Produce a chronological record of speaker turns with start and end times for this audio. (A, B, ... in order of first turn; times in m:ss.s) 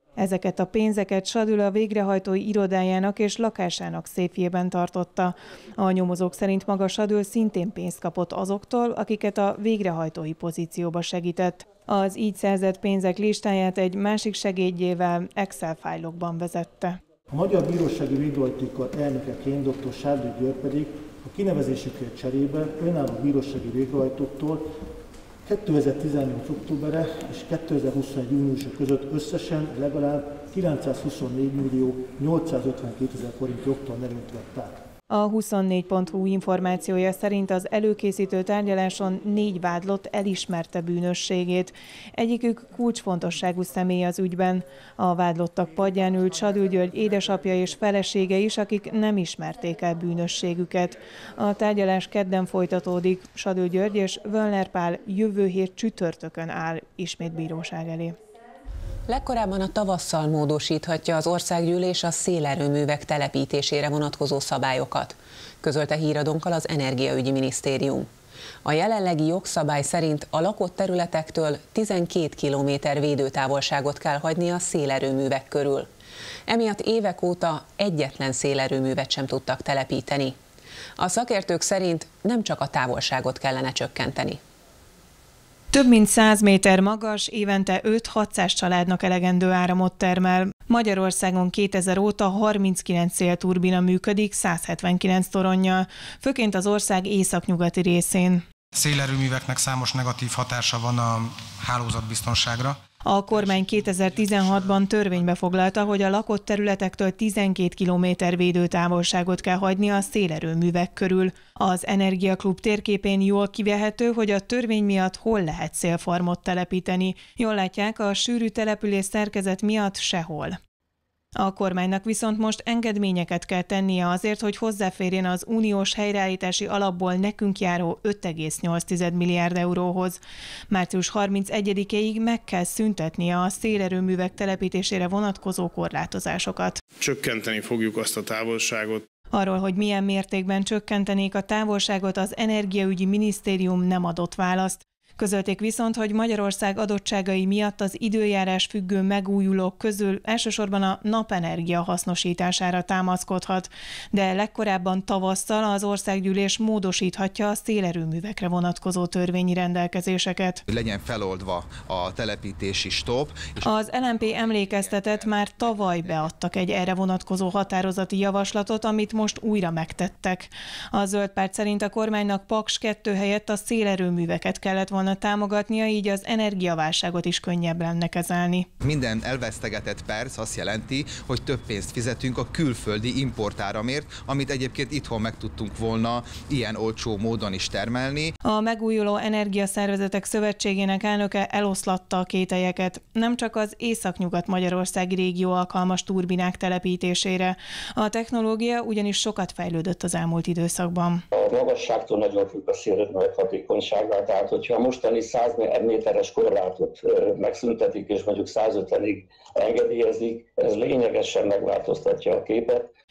0:00.2-0:17.0 A
0:17.3-0:24.7 B
0:25.4-0:34.8 B
0:35.1-0:58.1 A
0:59.1-1:08.1 C
1:08.6-1:15.9 C
1:16.5-1:20.4 C
1:21.0-1:24.4 C
1:25.7-1:38.4 A
1:38.7-1:42.8 D
1:43.0-2:00.6 A
2:01.4-2:10.2 A
2:10.7-2:16.8 A
2:17.0-2:19.0 E
2:19.3-2:40.6 A
2:40.7-2:46.2 F
2:43.6-2:58.7 A
2:58.8-3:08.3 F
3:08.4-3:21.2 A
3:21.3-3:32.9 G